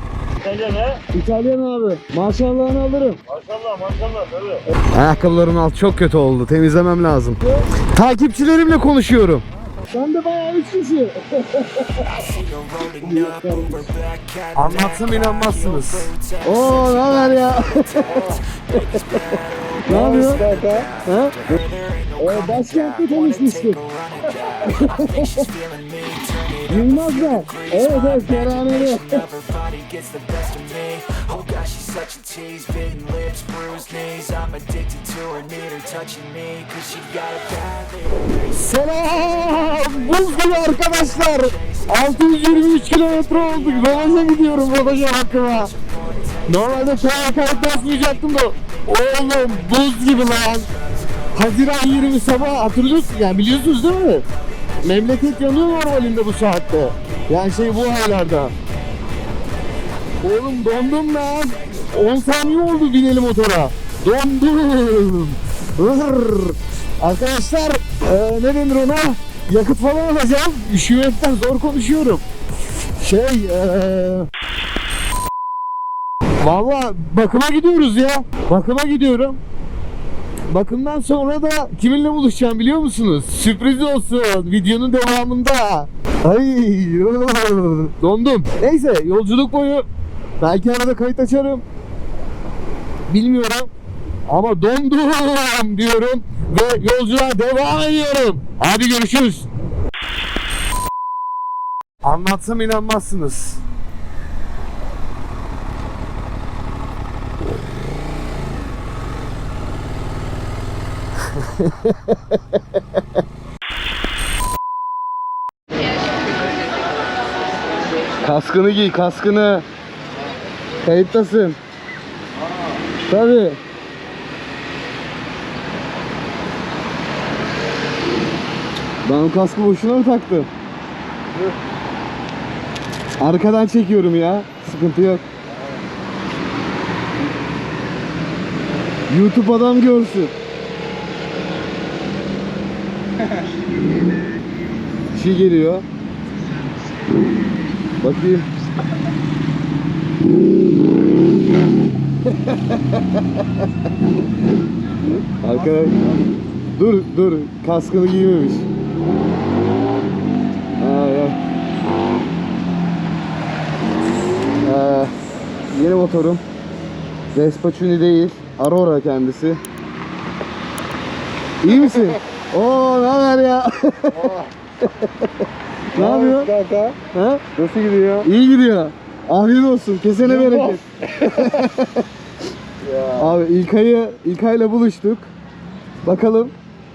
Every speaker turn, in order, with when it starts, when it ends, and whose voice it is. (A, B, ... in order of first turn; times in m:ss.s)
0:00.4-0:01.0 A
0:01.1-0:03.2 B
0:03.3-0:04.6 A
0:04.9-0:12.1 B
0:13.0-0:13.9 B
0:13.1-0:13.7 C
0:14.5-0:19.3 B
0:19.8-0:20.4 B
0:19.9-0:20.9 C
0:21.0-0:21.4 B
0:22.2-0:23.8 B
0:24.6-0:25.4 B
0:25.8-0:26.6 A
0:26.7-0:29.3 B
0:29.4-0:38.1 A
0:38.3-0:45.7 B
0:46.5-0:50.7 B
0:51.4-0:54.3 B
0:54.8-0:58.5 B
1:00.2-1:12.2 B
1:13.0-1:14.3 B
1:16.4-1:19.4 B
1:20.5-1:29.9 B
1:30.4-1:31.6 B
1:33.1-1:33.7 B
1:34.3-1:39.5 B
1:42.0-1:43.6 B
1:51.4-1:52.2 B
1:58.2-1:59.6 B
2:00.8-2:01.6 B
2:03.1-2:03.6 B
2:09.0-2:10.5 B
2:13.2-2:15.2 B
2:19.1-2:20.3 B
2:25.1-2:25.8 B
2:28.0-2:28.5 B
2:32.5-2:32.8 B
2:35.4-2:36.0 B
2:36.8-2:38.7 B
2:40.8-2:41.4 B
2:44.6-2:45.1 B
2:45.7-2:46.4 B
2:47.3-2:49.6 B
2:51.6-2:54.3 B
2:54.1-2:54.5 C
2:55.9-2:56.5 B
2:55.9-2:57.0 C
2:57.1-2:57.4 B
2:57.6-2:58.3 C
2:58.2-3:02.0 B
3:00.2-3:00.8 C
3:02.8-3:03.3 C
3:03.2-3:05.3 B
3:06.0-3:06.6 B